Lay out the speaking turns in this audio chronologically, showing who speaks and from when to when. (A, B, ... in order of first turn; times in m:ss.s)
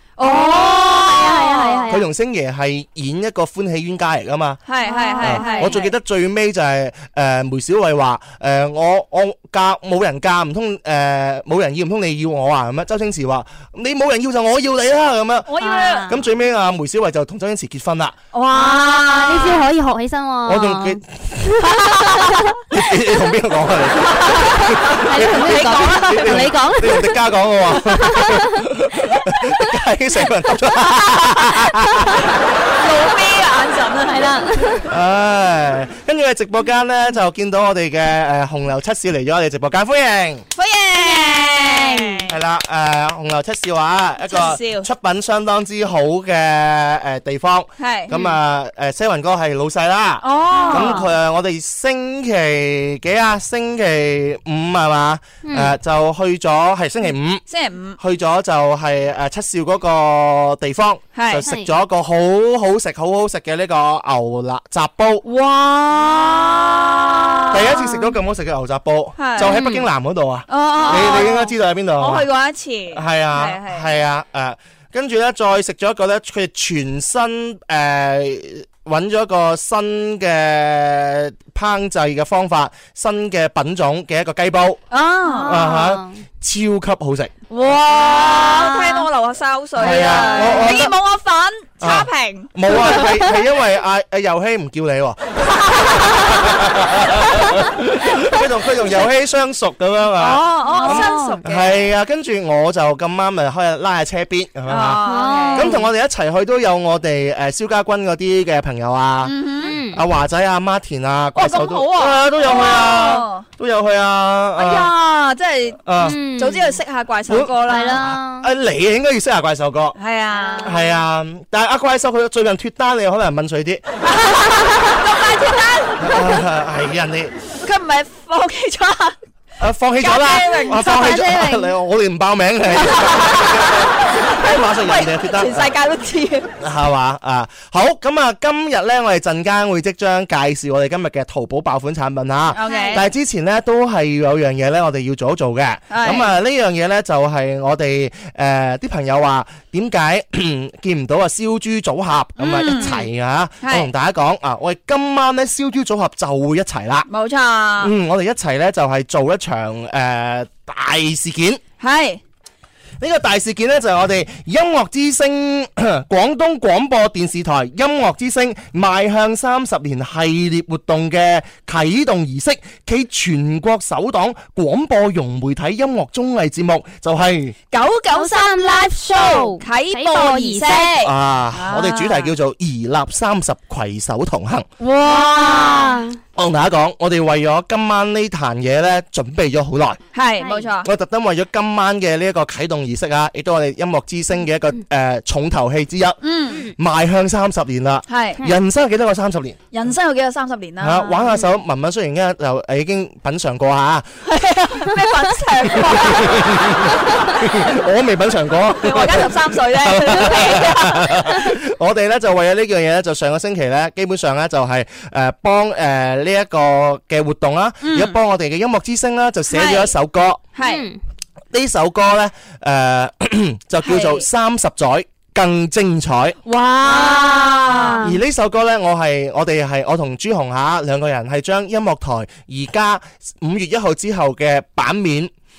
0:00.2-0:01.9 A
0:00.2-0:02.1 B
0:01.9-0:04.6 C
0:04.7-0:05.9 A
0:04.8-0:05.8 B
0:05.2-0:15.5 C
0:15.5-0:16.1 A
0:15.6-0:16.2 B
0:16.0-0:18.2 C
0:18.3-0:19.6 A
0:18.5-0:22.4 B
0:20.4-0:21.0 C
0:21.7-0:22.4 A
0:22.7-0:32.2 C
0:24.0-0:26.5 A
0:24.6-0:28.6 B
0:32.7-0:34.4 A
0:34.1-0:34.8 B
0:34.9-0:40.4 C
0:40.6-0:42.3 A
0:41.0-0:42.2 B
0:42.3-0:57.4 C
0:44.2-0:44.9 A
0:47.8-0:48.2 A
0:50.2-0:51.0 A
0:50.5-0:51.1 B
0:55.4-0:55.7 B
0:57.5-0:58.0 A
0:58.0-1:05.2 C
1:01.1-1:01.4 A
1:05.2-1:07.6 A
1:07.5-1:12.3 C
1:09.2-1:09.5 A
1:09.4-1:09.8 B
1:10.5-1:11.4 A
1:10.8-1:11.4 B
1:12.0-1:13.9 A
1:12.9-1:24.8 C
1:24.9-1:25.6 A
1:25.2-1:26.2 B
1:25.4-1:27.3 C
1:27.5-1:33.3 A
1:28.3-1:29.0 B
1:29.8-1:31.0 C
1:30.3-1:30.8 B
1:31.8-1:54.9 C
1:40.2-1:41.8 A
1:40.6-1:41.4 B
1:44.7-1:45.7 A
1:45.0-1:45.9 B
1:49.2-1:49.8 A
1:49.6-1:50.0 B
1:51.3-1:53.4 A
1:54.6-1:58.1 A
1:55.8-1:56.2 C
1:56.0-1:56.8 B
1:57.3-1:59.9 C
1:57.6-1:58.5 B
2:00.0-2:00.8 A
2:00.3-2:00.9 B
2:00.6-2:03.8 C
2:04.0-2:06.4 A
2:06.0-2:07.4 C
2:07.6-2:09.2 A
2:09.6-2:15.7 C
2:10.0-2:11.7 A
2:10.7-2:11.1 B
2:12.7-2:16.5 A
2:16.6-2:37.1 C
2:22.5-2:23.1 A
2:22.6-2:23.0 B
2:25.9-2:26.3 A
2:32.4-2:32.9 A
2:32.6-2:33.1 B
2:33.6-2:33.9 A
2:37.1-2:37.9 A
2:37.8-2:41.6 C
2:41.8-2:42.2 A
2:43.0-2:57.5 C
2:57.7-3:02.3 A
2:58.1-3:00.9 B
3:01.0-3:04.7 C
3:04.8-3:06.0 A
3:05.0-3:06.2 B
3:06.3-3:10.0 C
3:10.1-3:10.9 A
3:10.8-3:19.6 C
3:16.2-3:16.7 A
3:18.1-3:18.4 A
3:19.7-3:21.3 A
3:20.8-3:24.1 C
3:24.2-3:27.4 A
3:25.7-3:40.4 C
3:28.8-3:31.5 A
3:37.8-3:38.2 A
3:39.5-3:39.9 A
3:40.6-3:40.8 A
3:40.6-3:41.0 B
3:41.5-3:46.4 C
3:43.8-3:44.2 A
3:46.4-3:48.0 A
3:46.8-3:48.2 B
3:48.0-3:55.3 C